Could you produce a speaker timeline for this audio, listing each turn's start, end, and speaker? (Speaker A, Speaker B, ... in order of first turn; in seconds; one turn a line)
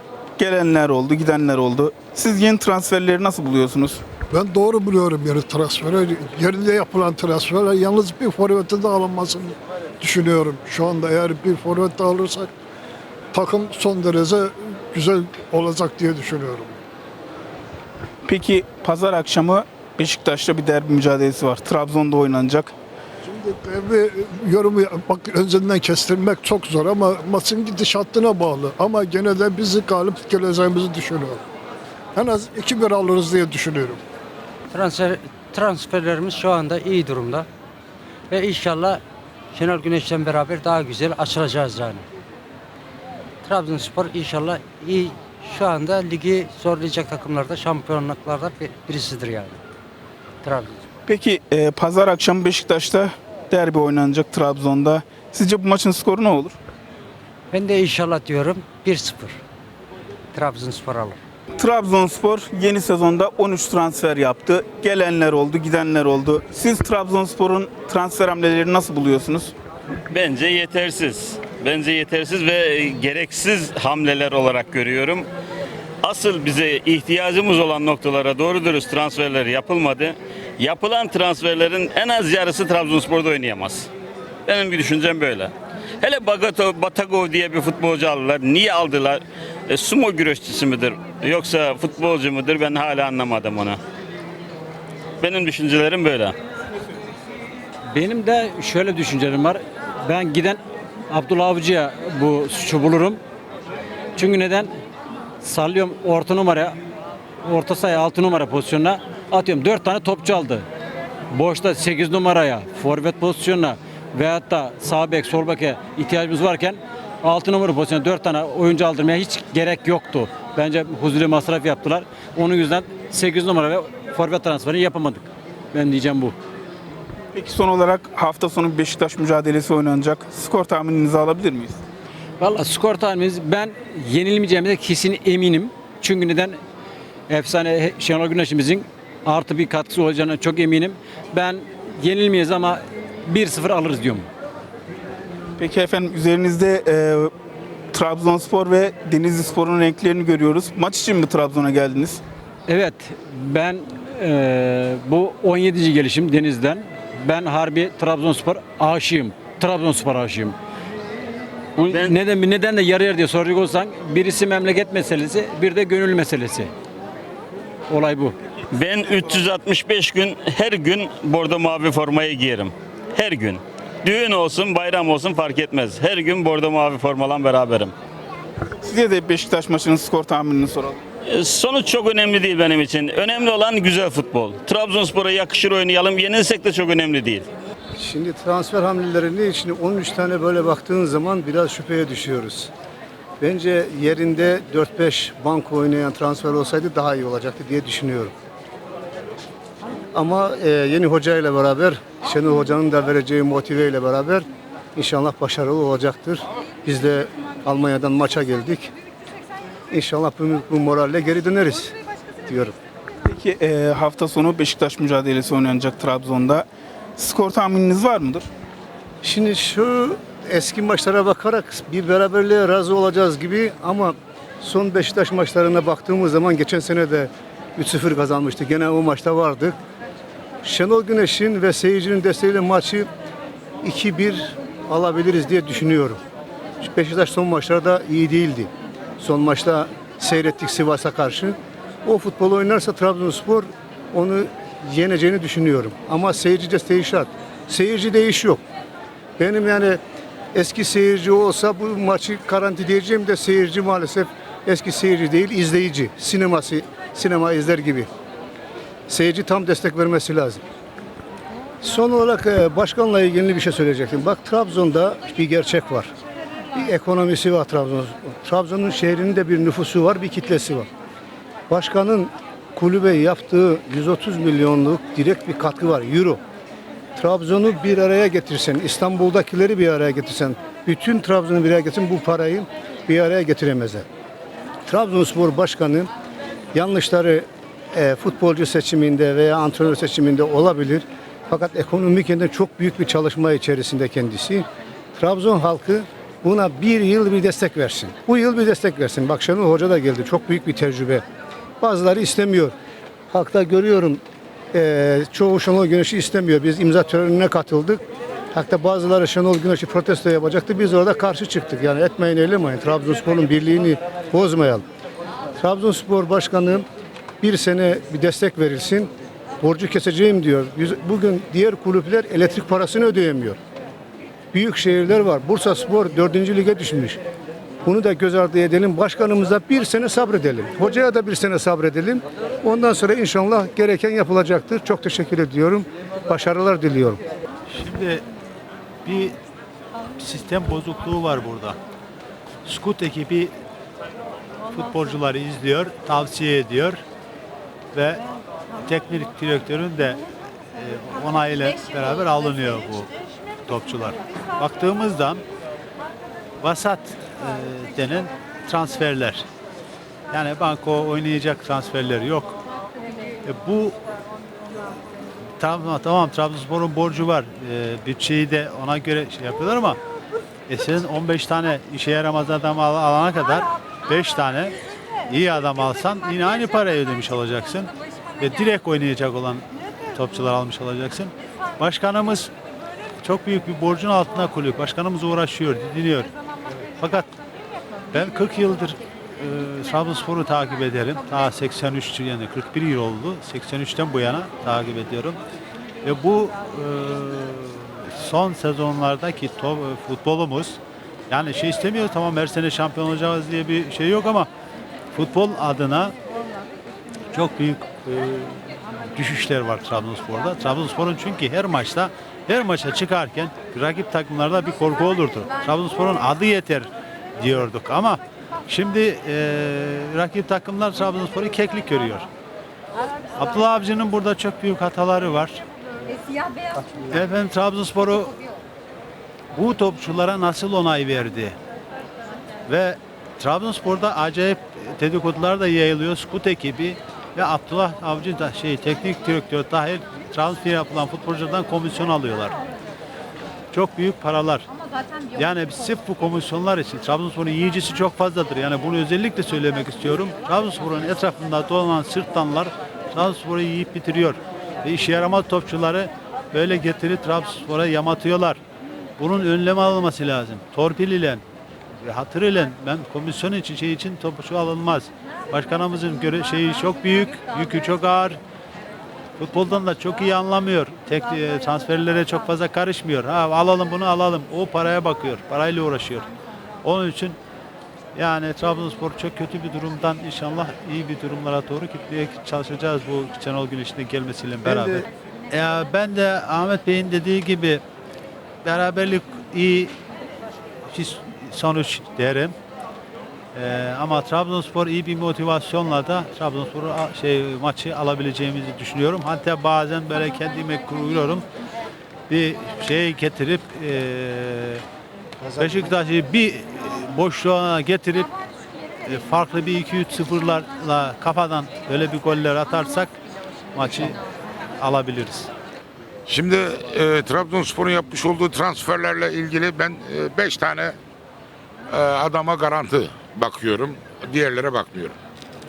Speaker A: 0.4-4.0
Speaker B: 4.3-12.5
Speaker B: 13.3-16.8
Speaker A: 18.3-22.7
Speaker B: 23.3-31.4
Speaker B: 32.1-34.0
Speaker C: 34.7-37.4
Speaker C: 38.3-39.0
Speaker C: 39.6-42.0
Speaker C: 43.5-49.5
Speaker C: 50.4-50.8
Speaker A: 51.1-56.6
Speaker C: 57.5-59.3
Speaker C: 60.4-61.1
Speaker A: 61.6-69.5
Speaker D: 70.1-75.3
Speaker D: 76.0-83.9
Speaker D: 84.5-93.8
Speaker D: 95.2-96.4
Speaker E: 97.9-103.2
Speaker E: 104.2-104.7
Speaker E: 105.4-106.8
Speaker E: 107.5-110.7
Speaker E: 111.3-126.3
Speaker A: 127.3-131.8
Speaker E: 132.4-136.6
Speaker E: 137.3-144.3
Speaker A: 145.6-147.3
Speaker A: 147.9-152.2
Speaker E: 152.7-160.6
Speaker E: 161.8-166.7
Speaker D: 161.9-162.2
Speaker E: 167.9-168.3
Speaker D: 168.7-177.9
Speaker A: 178.8-181.0
Speaker D: 181.3-187.5
Speaker F: 188.0-192.7
Speaker F: 193.4-198.3
Speaker F: 200.1-208.9
Speaker F: 209.9-212.8
Speaker A: 213.3-218.5
Speaker F: 219.2-229.8
Speaker F: 230.6-233.1
Speaker F: 233.8-236.2
Speaker F: 236.8-248.6
Speaker F: 249.4-250.0
Speaker F: 250.5-258.1
Speaker F: 259.1-260.6
Speaker F: 261.8-266.1
Speaker F: 266.7-270.9
Speaker F: 271.7-276.4
Speaker F: 277.2-284.1
Speaker F: 284.9-286.1
Speaker F: 286.7-301.2
Speaker F: 301.8-302.7
Speaker F: 303.3-304.2
Speaker F: 304.7-314.8
Speaker F: 315.6-316.9
Speaker F: 317.4-323.6
Speaker F: 324.5-327.2
Speaker F: 327.9-337.2
Speaker G: 337.7-338.2
Speaker G: 339.0-339.4
Speaker G: 340.2-341.8
Speaker G: 342.6-343.5
Speaker G: 344.7-347.0
Speaker G: 347.9-348.2
Speaker G: 348.8-350.2
Speaker G: 350.8-353.1
Speaker G: 353.6-355.4
Speaker G: 356.6-359.4
Speaker G: 360.3-362.6
Speaker G: 363.4-364.0
Speaker G: 365.6-370.0
Speaker G: 370.7-374.8
Speaker G: 375.3-382.5
Speaker G: 383.2-386.3
Speaker G: 387.0-387.3
Speaker G: 388.1-395.4
Speaker G: 396.0-404.5
Speaker G: 405.1-406.1
Speaker G: 407.3-408.6
Speaker G: 409.1-422.3
Speaker G: 423.4-425.6
Speaker G: 427.0-428.4
Speaker G: 429.5-431.6
Speaker G: 432.7-442.6
Speaker G: 443.7-444.7
Speaker G: 445.4-458.6
Speaker G: 459.2-461.4
Speaker G: 462.0-468.4
Speaker G: 469.4-476.3
Speaker G: 476.8-477.4
Speaker G: 478.1-487.8
Speaker F: 484.6-485.1
Speaker G: 488.6-489.9
Speaker G: 490.9-492.6
Speaker G: 493.6-501.5
Speaker G: 502.3-504.8
Speaker G: 505.6-508.3
Speaker G: 509.0-513.1
Speaker G: 513.8-514.2
Speaker G: 514.8-515.5
Speaker H: 516.3-521.0
Speaker H: 521.9-525.2